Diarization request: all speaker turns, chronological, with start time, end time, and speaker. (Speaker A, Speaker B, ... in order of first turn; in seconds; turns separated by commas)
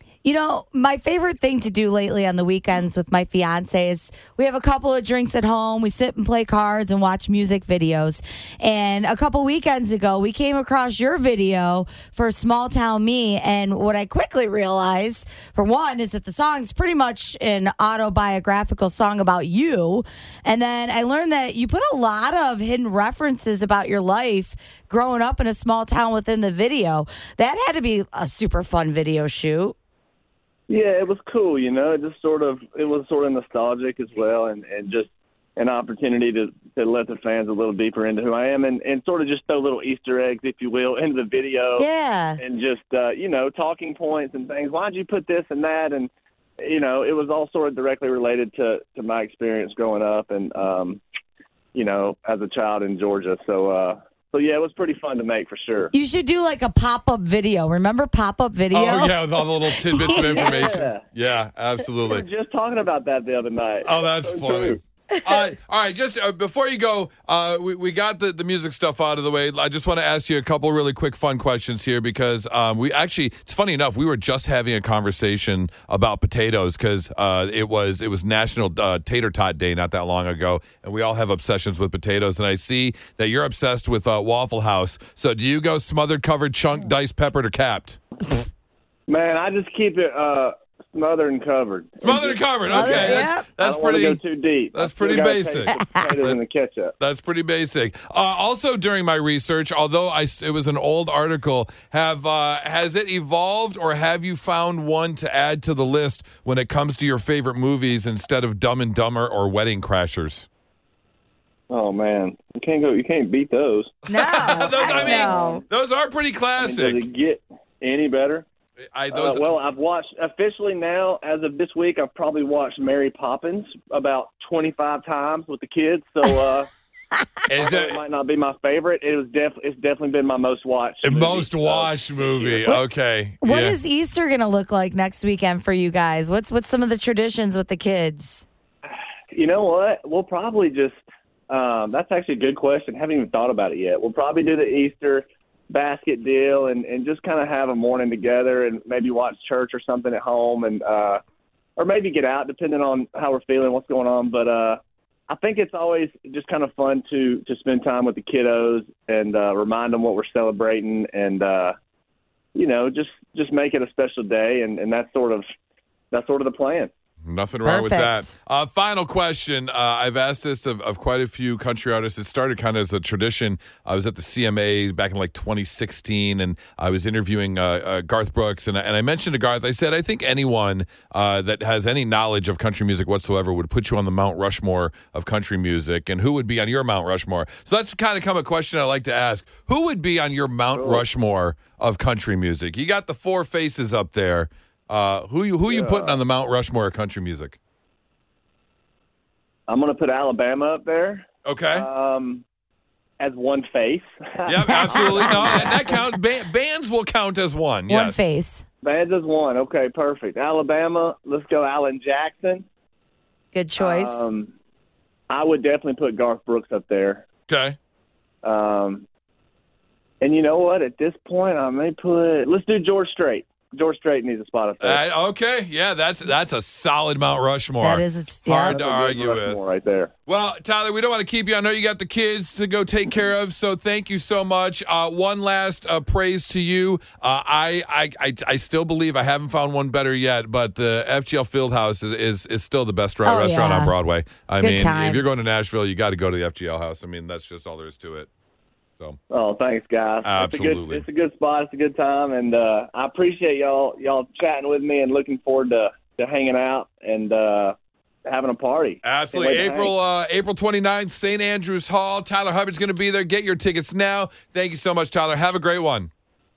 Speaker A: 0.2-29.8, Speaker B: 30.7-41.9, Speaker A: 41.8-42.4, Speaker B: 42.4-51.0, Speaker B: 51.8-55.9, Speaker A: 55.9-60.8, Speaker C: 58.7-62.2, Speaker B: 60.0-61.0, Speaker B: 62.0-64.8, Speaker C: 63.8-88.0, Speaker B: 89.1-96.9, Speaker C: 92.0-94.2, Speaker A: 92.7-93.5, Speaker C: 94.7-96.4, Speaker C: 97.0-110.5, Speaker B: 111.7-113.9, Speaker A: 114.1-115.6, Speaker C: 114.1-117.0, Speaker B: 114.5-115.6, Speaker B: 116.6-118.5, Speaker C: 118.9-119.5, Speaker B: 119.1-126.7, Speaker C: 127.5-128.0, Speaker B: 127.6-132.8, Speaker C: 131.0-133.8, Speaker A: 133.4-138.4, Speaker B: 139.3-151.2, Speaker B: 151.8-161.7, Speaker B: 162.5-165.4, Speaker B: 166.1-166.9, Speaker C: 167.2-197.6, Speaker A: 167.6-168.3, Speaker B: 190.8-191.0, Speaker B: 195.7-196.2, Speaker B: 199.7-202.4, Speaker C: 201.4-201.9, Speaker B: 203.2-205.9, Speaker C: 204.5-208.3, Speaker A: 205.0-205.7, Speaker A: 207.9-208.7, Speaker B: 208.8-212.6, Speaker A: 213.5-214.3, Speaker B: 213.8-214.5, Speaker B: 215.3-217.2, Speaker C: 217.5-217.8, Speaker B: 218.4-219.0, Speaker B: 220.2-225.0, Speaker C: 224.8-229.6, Speaker A: 227.8-228.8, Speaker B: 228.6-230.1, Speaker C: 230.3-248.3, Speaker A: 243.2-243.9, Speaker A: 244.6-245.4, Speaker B: 249.3-257.7, Speaker C: 250.2-251.0, Speaker B: 258.2-259.9, Speaker C: 259.0-266.1